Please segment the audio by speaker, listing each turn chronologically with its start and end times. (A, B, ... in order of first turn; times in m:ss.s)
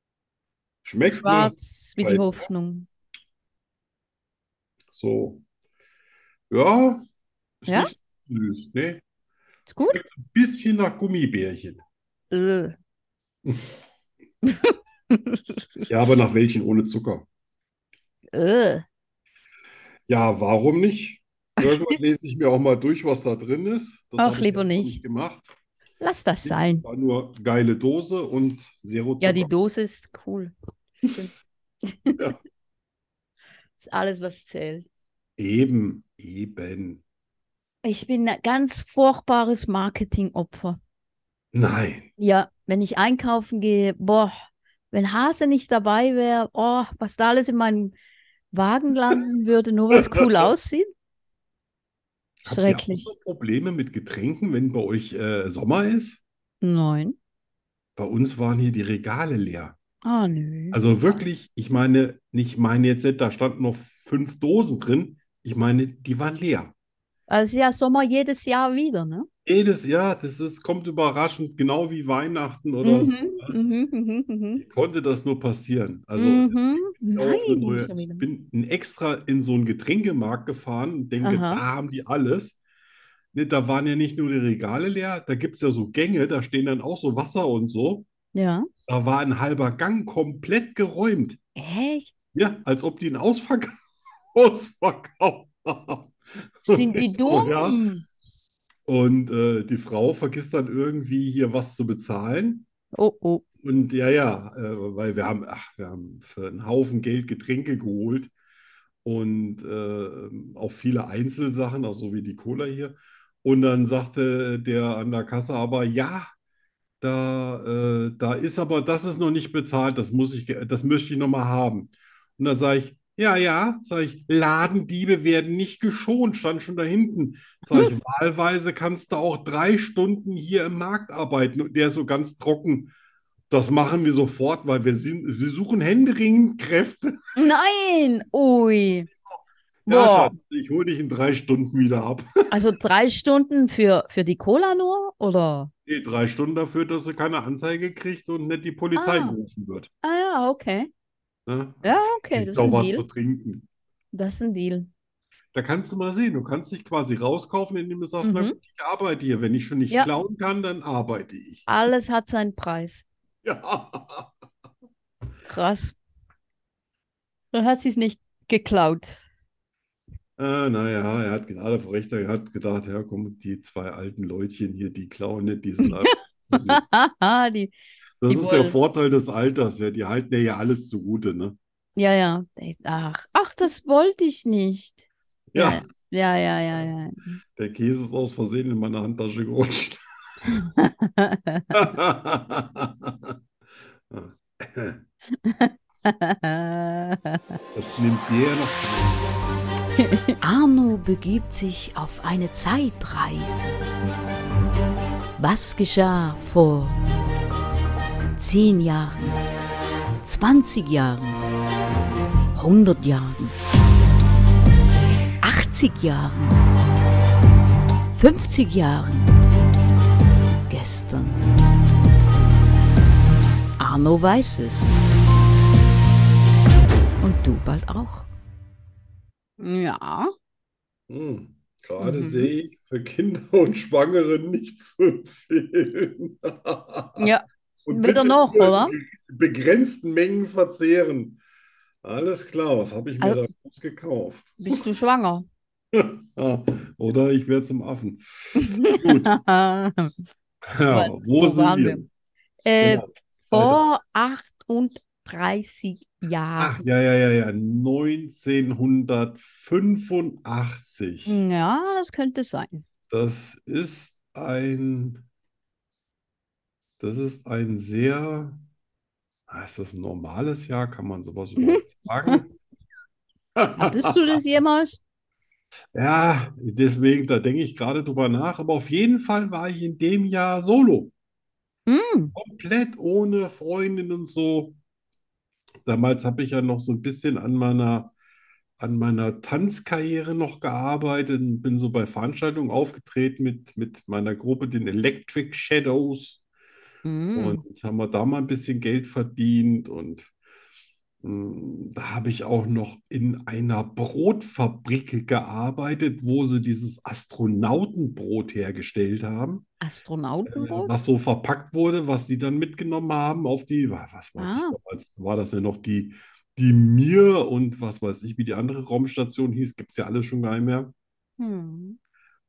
0:00.8-0:02.4 A
0:01.1-0:02.9 B
0:04.9-0:05.4 A
0:06.5-0:07.0 A
0:07.6-0:09.0 A
0:09.7-0:10.0 B
0:09.9-0:11.8 A
0:12.3-0:12.8 B
0:14.4-0:15.9 B
0:15.9-0:17.2 A
0:18.3-0:18.8 B
0:20.1-0:25.5 A
0:21.6-0:21.9 B
0:24.2-0:25.0 B
0:26.0-0:26.8 B
0:26.4-0:29.5 A
0:29.2-0:30.5 B
0:31.8-0:32.2 B
0:33.8-0:34.8 B
0:35.4-0:37.0 A
0:37.8-0:40.8 B
0:41.5-0:42.1 A
0:42.2-0:44.3 B
0:44.9-0:47.9 B
0:48.5-0:50.9 B
0:52.4-0:56.2 A
0:52.5-0:53.1 B
0:56.6-0:57.1 B
0:58.0-0:59.8 A
1:00.0-1:01.2 B
1:00.7-1:06.7 A
1:07.3-1:09.3 B
1:09.4-1:13.5 A
1:12.8-1:14.6 B
1:14.6-1:22.6 A
1:16.2-1:18.3 B
1:21.2-1:21.6 B
1:23.3-1:28.1 A
1:28.3-1:28.7 B
1:28.9-1:31.4 A
1:31.6-1:32.1 B
1:32.3-1:33.8 A
1:34.3-1:37.8 A
1:36.6-1:38.0 B
1:38.8-1:42.6 A
1:42.9-1:43.4 B
1:43.6-1:48.3 A
1:49.0-1:56.3 A
1:57.0-2:12.9 A
2:13.5-2:17.2 A
2:17.3-2:19.1 B
2:19.9-2:20.3 B
2:19.9-2:22.5 A
2:22.5-2:25.7 B
2:25.8-2:29.9 A
2:28.9-2:29.4 B
2:30.0-2:30.9 B
2:31.4-2:33.7 A
2:31.8-2:33.0 B
2:34.1-2:34.9 B
2:35.5-2:41.7 A
2:38.2-2:38.5 B
2:41.7-2:43.0 B
2:43.4-2:44.3 A
2:45.4-2:46.0 B
2:47.5-2:49.2 B
2:50.4-2:56.8 A
2:56.5-2:57.7 B
2:58.2-3:01.6 A
2:58.3-2:58.8 B
3:02.0-3:05.0 B
3:05.5-3:05.8 A
3:05.5-3:07.4 B
3:07.6-3:10.0 A
3:10.5-3:11.7 B
3:11.7-3:13.3 A
3:14.1-3:15.0 A
3:15.4-3:17.4 B
3:17.7-3:19.4 A
3:20.0-3:20.4 B
3:20.4-3:23.9 C
3:25.4-3:27.0 C
3:28.4-3:29.4 C
3:30.2-3:31.4 C
3:32.5-3:33.6 C
3:35.4-3:36.6 C
3:38.2-3:39.3 C
3:40.7-3:41.4 C
3:43.8-3:45.0 C
3:47.2-3:48.3 C
3:49.6-3:50.3 B
3:51.1-3:57.3 A
3:52.0-3:52.5 B
3:57.2-3:58.9 B
3:57.8-4:01.4 A
4:02.0-4:04.8 A
4:04.6-4:05.5 B
4:05.9-4:09.3 A
4:08.6-4:10.1 B
4:10.7-4:12.0 A
4:10.9-4:12.1 B
4:12.6-4:16.8 B
4:12.8-4:13.8 A
4:16.6-4:21.4 A
4:21.2-4:22.8 B
4:23.1-4:25.2 A
4:27.0-4:28.6 A
4:29.5-4:32.5 A
4:31.6-4:32.4 B
4:33.6-4:34.2 A
4:33.8-4:35.0 B
4:35.9-4:41.1 A
4:41.9-4:42.3 B
4:42.3-4:44.8 A
4:45.8-4:48.1 A
4:48.8-4:56.4 A
4:57.0-4:57.6 B
4:57.4-5:00.3 A
5:01.2-5:09.6 A
5:09.8-5:10.9 B
5:10.4-5:20.9 A
5:14.4-5:14.8 B
5:21.4-5:22.0 B